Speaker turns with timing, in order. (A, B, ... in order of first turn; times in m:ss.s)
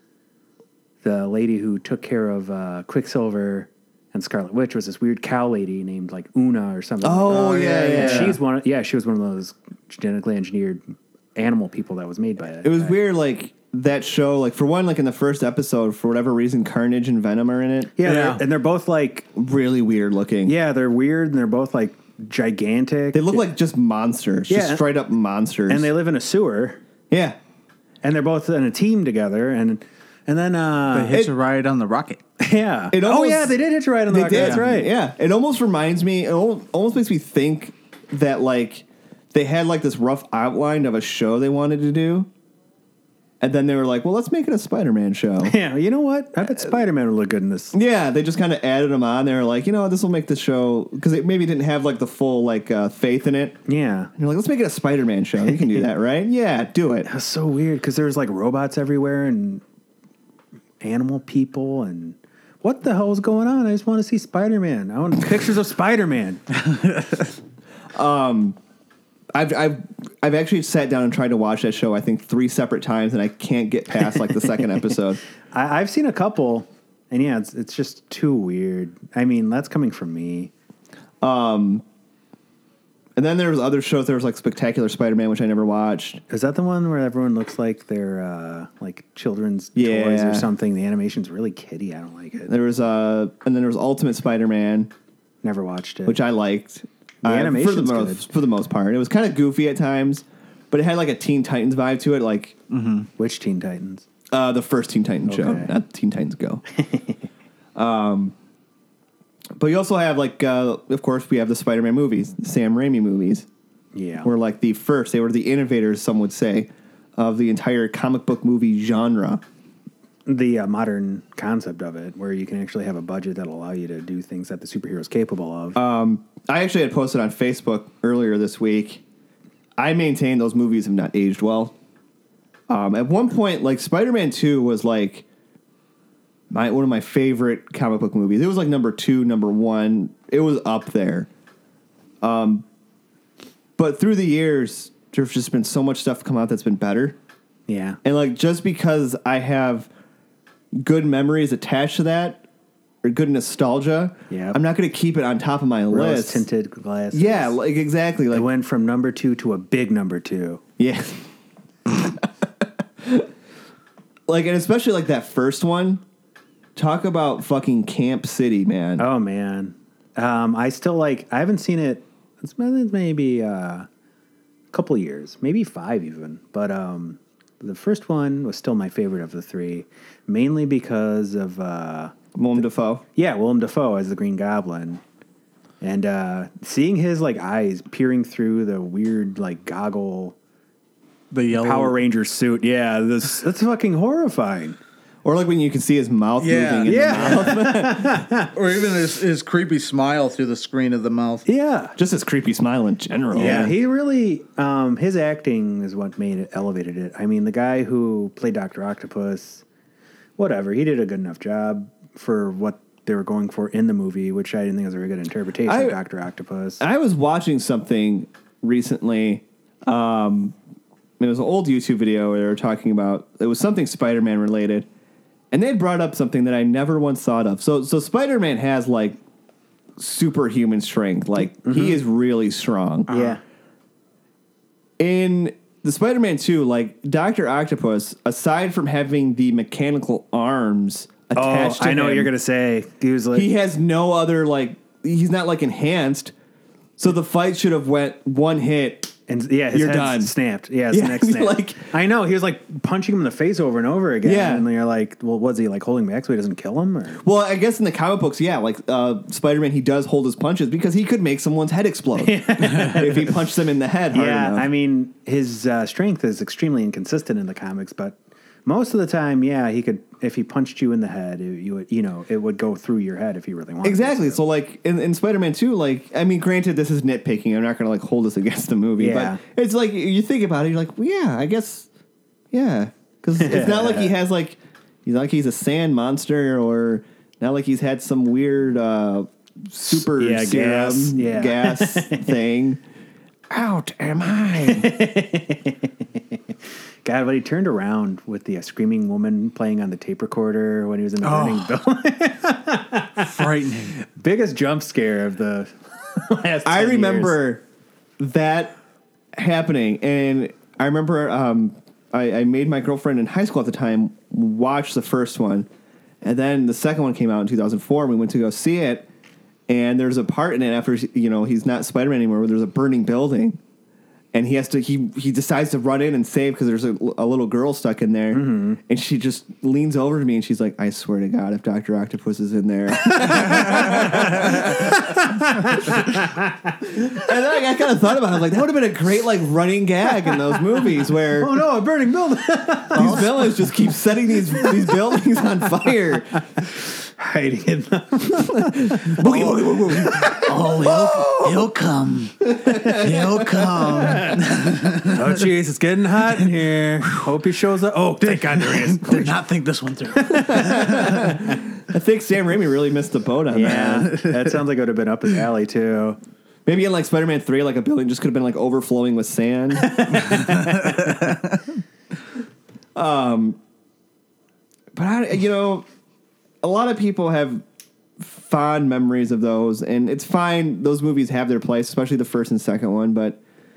0:01.0-0:10.8 A
0:07.0-0:08.4 B
0:07.3-0:08.4 C
0:11.4-0:13.0 A
0:12.6-0:18.0 B
0:18.0-0:19.3 A
0:18.0-0:18.4 C
0:19.4-0:20.5 B
0:20.4-0:23.5 A
0:23.1-0:25.9 B
0:24.5-0:24.9 A
0:25.7-0:26.8 A
0:27.1-0:27.4 B
0:28.0-0:31.2 A
0:30.9-0:32.2 C
0:32.4-0:34.9 A
0:32.9-0:33.6 B
0:34.1-0:42.3 B
0:43.4-0:45.6 B
0:45.4-0:47.8 A
0:47.7-0:53.6 B
0:53.7-0:54.1 A
0:54.2-0:57.1 B
0:57.1-0:59.6 A
1:00.8-1:06.4 A
1:06.6-1:07.3 C
1:07.9-1:08.6 B
1:09.4-1:15.2 B
1:15.5-1:20.5 A
1:21.2-1:21.8 B
1:23.2-1:26.2 B
1:26.3-1:32.5 A
1:29.8-1:30.5 B
1:32.5-1:34.9 B
1:35.4-1:36.2 A
1:36.1-1:42.6 B
1:37.2-1:38.3 A
1:42.7-1:43.1 C
1:43.2-1:44.1 A
1:44.3-1:46.6 B
1:45.3-1:45.7 A
1:46.8-1:47.2 A
1:47.8-1:48.4 B
1:49.6-1:53.5 B
1:53.9-1:54.3 A
1:54.2-1:59.4 B
2:00.3-2:05.8 A
2:05.8-2:09.0 B
2:09.8-2:11.7 B
2:12.7-2:15.2 B
2:16.5-2:21.3 B
2:22.2-2:22.6 B
2:23.8-2:27.2 B
2:27.7-2:28.0 A
2:28.0-2:29.9 B
2:30.8-2:32.4 B
2:33.0-2:36.4 B
2:34.3-2:34.6 A
2:35.9-2:37.6 A
2:37.1-2:38.5 B
2:38.3-2:40.6 A
2:40.8-2:41.2 B
2:41.9-2:42.3 B
2:43.0-2:43.3 B
2:44.3-2:46.0 B
2:46.8-2:49.1 B
2:49.0-2:53.9 A
2:54.7-3:02.2 A
3:02.4-3:03.0 B
3:03.2-3:05.0 A
3:05.8-3:10.4 A
3:11.3-3:12.0 C
3:11.5-3:14.8 A
3:15.2-3:18.2 B
3:16.4-3:17.6 C
3:16.9-3:18.5 A
3:18.5-3:21.4 C
3:21.5-3:22.0 A
3:22.0-3:23.7 B
3:23.3-3:29.6 A
3:23.4-3:23.7 C
3:30.4-3:36.8 A
3:35.7-3:36.0 B
3:36.8-3:40.6 B
3:41.2-3:44.9 B
3:45.5-3:49.2 B
3:50.0-3:53.2 B
3:51.6-3:52.0 A
3:53.1-3:53.4 A
3:55.0-4:02.3 B
4:01.4-4:03.5 A
4:03.3-4:06.3 B
4:07.0-4:09.1 B
4:09.3-4:17.2 A
4:09.7-4:10.3 B
4:10.9-4:11.8 B
4:14.2-4:14.7 B
4:17.2-4:24.7 B
4:22.2-4:23.5 A
4:24.1-4:34.4 A
4:33.8-4:41.9 B
4:39.0-4:39.4 A
4:42.5-4:52.8 B
4:43.4-4:44.1 A
4:49.9-4:52.3 A
4:53.5-4:54.9 B
4:54.6-5:03.4 A
5:01.2-5:01.8 C
5:03.2-5:04.0 C
5:04.0-5:07.5 A
5:06.6-5:07.6 B
5:08.2-5:08.8 B
5:09.4-5:15.7 B
5:16.2-5:19.1 B
5:19.7-5:23.6 B
5:24.3-5:35.4 B
5:28.3-5:28.8 A
5:33.0-5:37.3 A
5:37.0-5:41.5 B
5:41.4-5:43.7 A
5:42.9-5:46.4 B
5:43.0-5:43.5 C
5:44.5-5:44.9 A
5:46.6-5:50.9 A
5:48.5-5:51.7 B
5:49.2-5:55.4 C
5:52.5-5:54.2 B
5:54.0-5:54.4 A
5:55.1-5:59.4 A
5:58.2-6:01.4 C
6:00.2-6:01.4 A
6:00.3-6:04.1 B
6:03.5-6:06.2 A
6:04.1-6:04.6 C
6:06.7-6:10.5 B
6:09.9-6:11.0 A
6:10.1-6:11.6 C
6:13.0-6:13.6 B
6:15.0-6:15.9 B
6:16.6-6:17.6 B
6:18.2-6:23.4 B